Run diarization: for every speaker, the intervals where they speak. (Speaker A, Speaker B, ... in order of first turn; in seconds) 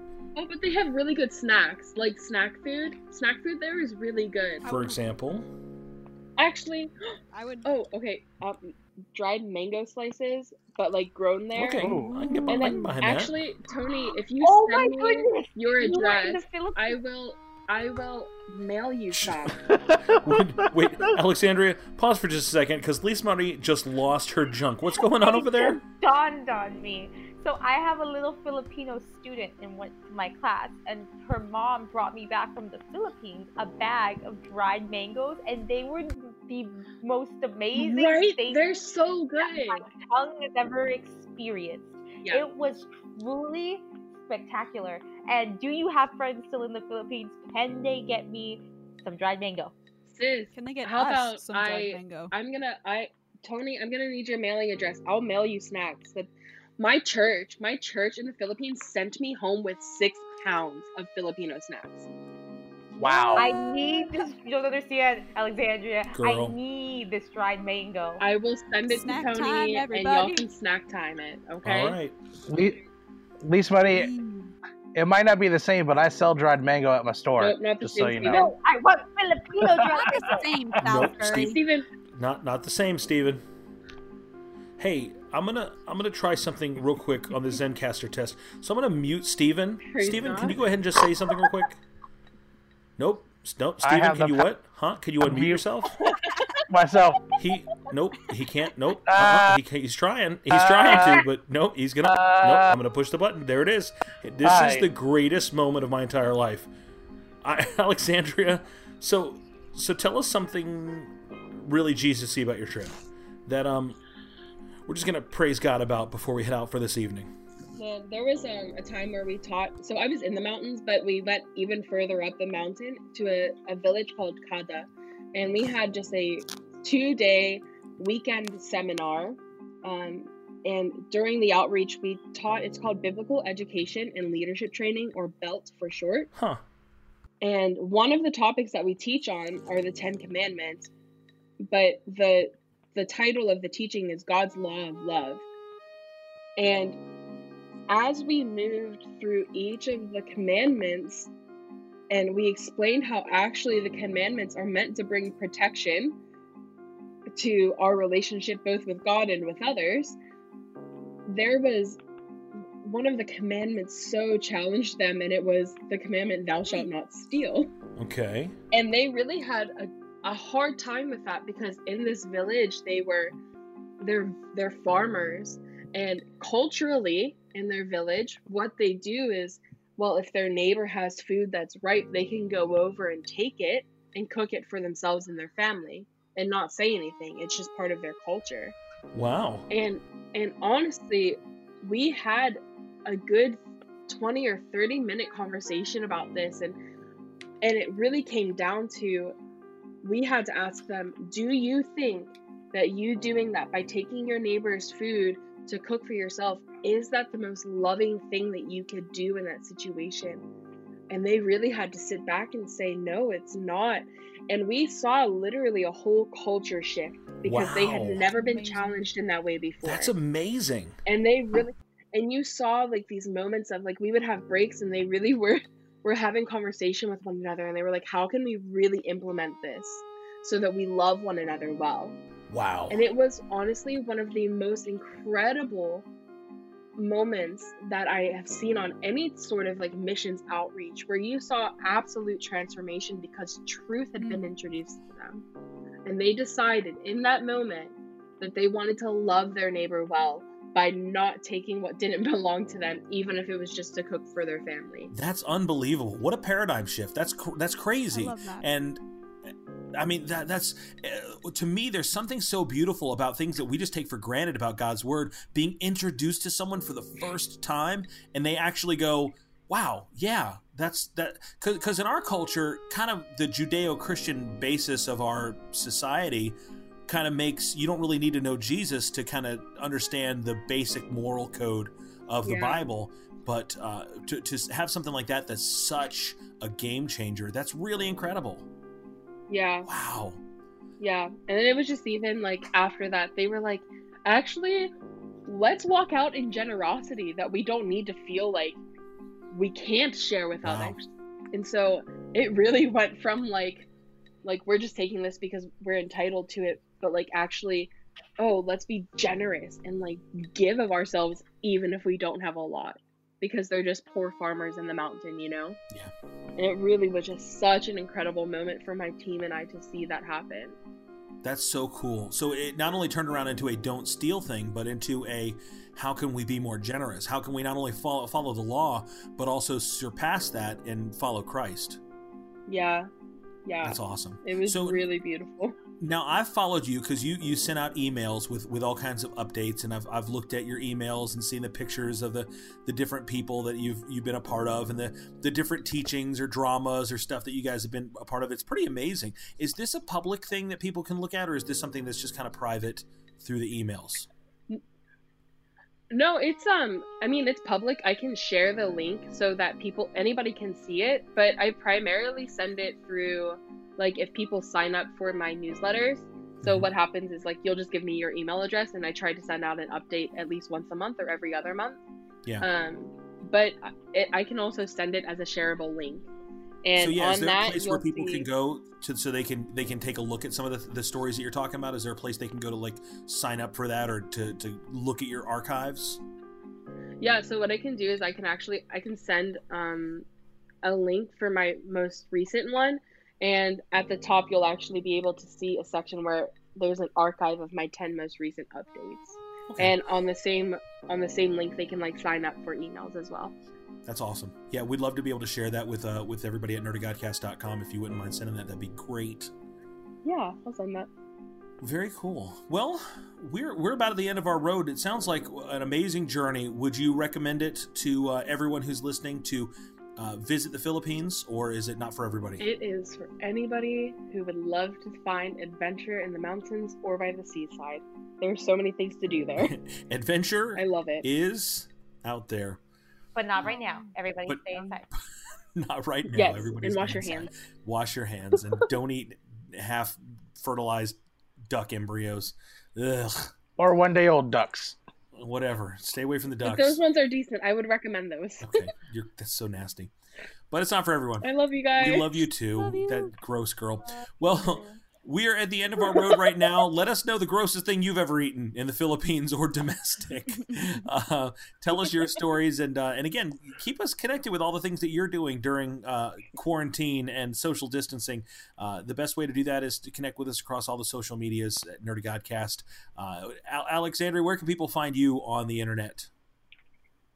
Speaker A: 0.3-4.6, 6.4-6.9, 7.6-11.9, 12.5-19.6, 37.8-39.9, 50.1-62.1, 68.2-72.0, 77.4-78.5, 81.3-81.9, 89.9-90.7, 117.7-136.3, 137.4-140.9, 141.6-145.4, 146.6-147.0, 147.9-151.3, 152.1-156.1, 157.3-160.2, 161.3-162.0, 162.8-167.7, 168.7-173.3, 174.0-188.7, 189.7-196.8, 197.6-199.3, 200.0-210.4, 211.1-220.1, 221.1-232.2, 232.9-236.1, 236.9-245.4, 246.0-255.1, 282.4-282.8, 289.5-289.9, 291.0-294.9, 295.5-298.8, 299.5-303.9, 304.4-315.8, 316.6-320.8, 332.7-333.1, 333.6-335.8, 356.1-372.0, 372.6-376.3, 376.8-378.4, 387.2-390.2, 390.8-403.5, 410.2-411.1, 422.6-429.7, 430.8-431.2, 436.3-437.5, 446.6-448.8, 451.4-452.4
Speaker B: 4.6-5.0, 7.3-7.7, 50.5-52.3, 63.0-64.3, 68.9-70.5, 73.9-74.5, 79.9-81.6, 218.3-219.1, 244.2-244.5, 258.1-258.6, 433.6-434.1, 452.8-453.3
Speaker C: 4.6-5.5, 11.5-13.4, 19.1-19.5, 20.1-25.8, 66.1-66.6, 71.6-72.2, 80.8-81.6, 82.1-83.4, 84.8-91.8, 93.0-95.9, 97.4-106.7, 107.4-114.0, 114.8-117.3, 136.3-136.6, 167.9-168.5, 189.1-189.7, 217.4-218.3, 219.8-220.9, 232.5-233.0, 255.1-259.0, 259.9-276.5, 277.1-288.7, 289.8-290.4, 300.6-301.0, 321.4-332.0, 333.8-335.0, 336.0-354.3, 366.6-366.9, 376.9-386.2, 399.7-400.0, 404.0-409.5, 411.8-422.6, 429.6-432.8, 434.5-434.8, 435.8-443.5, 445.3-447.0, 448.6-450.1, 450.7-476.3
Speaker D: 11.8-12.1, 19.7-20.2, 63.0-63.5, 72.5-72.8, 73.4-74.1, 74.9-78.5, 93.8-94.5, 95.2-95.6, 96.7-97.2, 99.0-99.6, 100.5-101.2, 102.0-102.7, 104.4-104.9, 443.8-445.0
Speaker E: 12.0-12.7, 14.4-17.0, 25.2-38.8, 39.4-49.7, 63.3-68.2, 78.2-80.5, 433.4-435.1